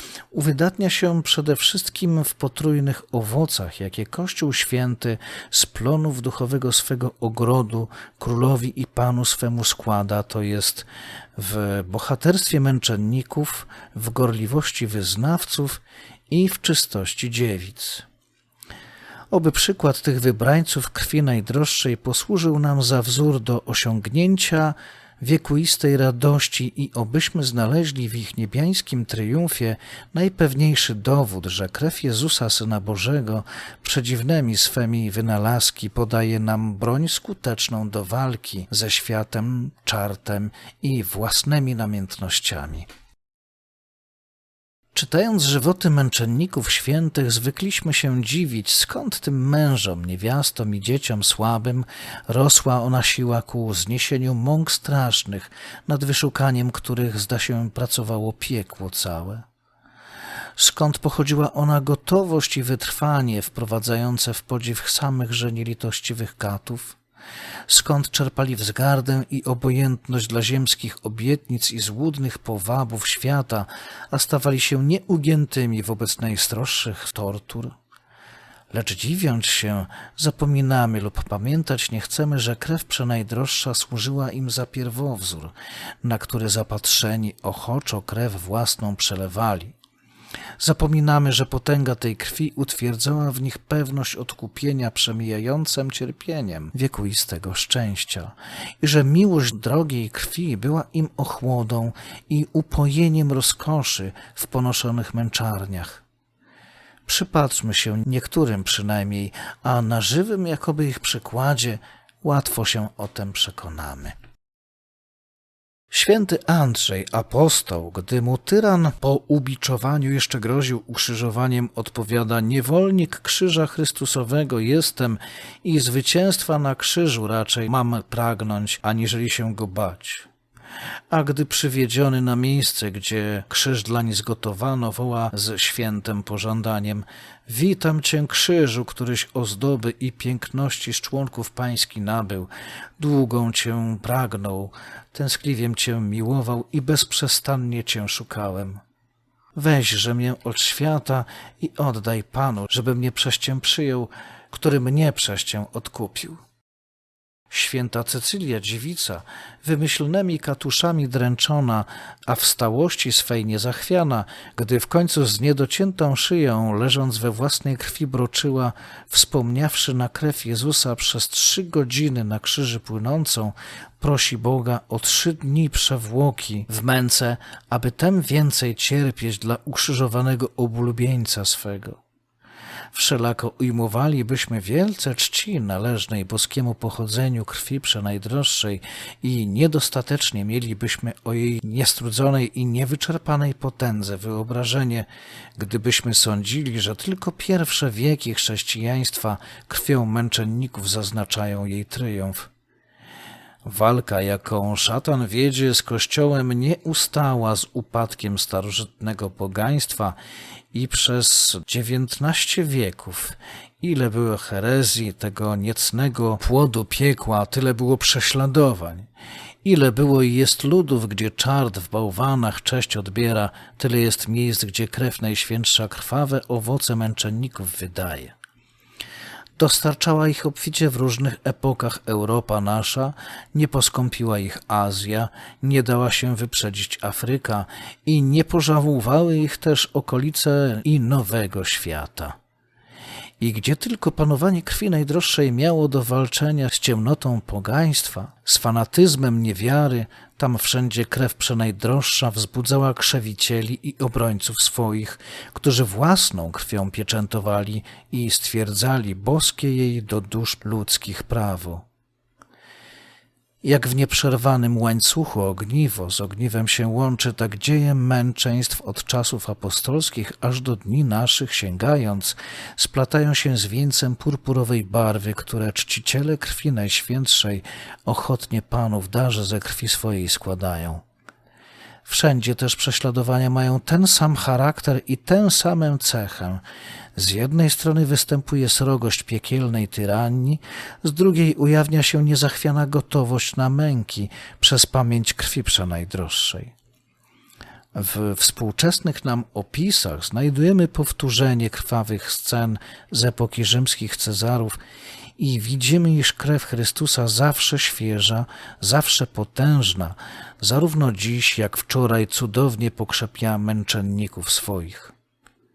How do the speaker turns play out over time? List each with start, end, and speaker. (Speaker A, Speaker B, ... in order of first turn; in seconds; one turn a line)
Speaker A: 0.3-18.1
Speaker A: 19.3-42.9
Speaker A: 44.9-59.5
Speaker A: 60.6-67.0
Speaker A: 67.7-77.8
Speaker A: 78.7-89.8
Speaker A: 90.6-106.0
Speaker A: 107.1-114.2
Speaker A: 115.9-130.3
Speaker A: 131.1-148.8
Speaker A: 149.6-156.4
Speaker A: 157.5-182.0
Speaker A: 182.9-202.5
Speaker A: 203.6-210.2
Speaker A: 210.7-219.1
Speaker A: 219.6-228.3
Speaker A: 229.6-242.4
Speaker A: 243.4-261.9
Speaker A: 263.6-281.0
Speaker A: 282.1-286.6
Speaker A: 287.2-296.7
Speaker A: 297.9-304.8
Speaker A: 305.4-315.1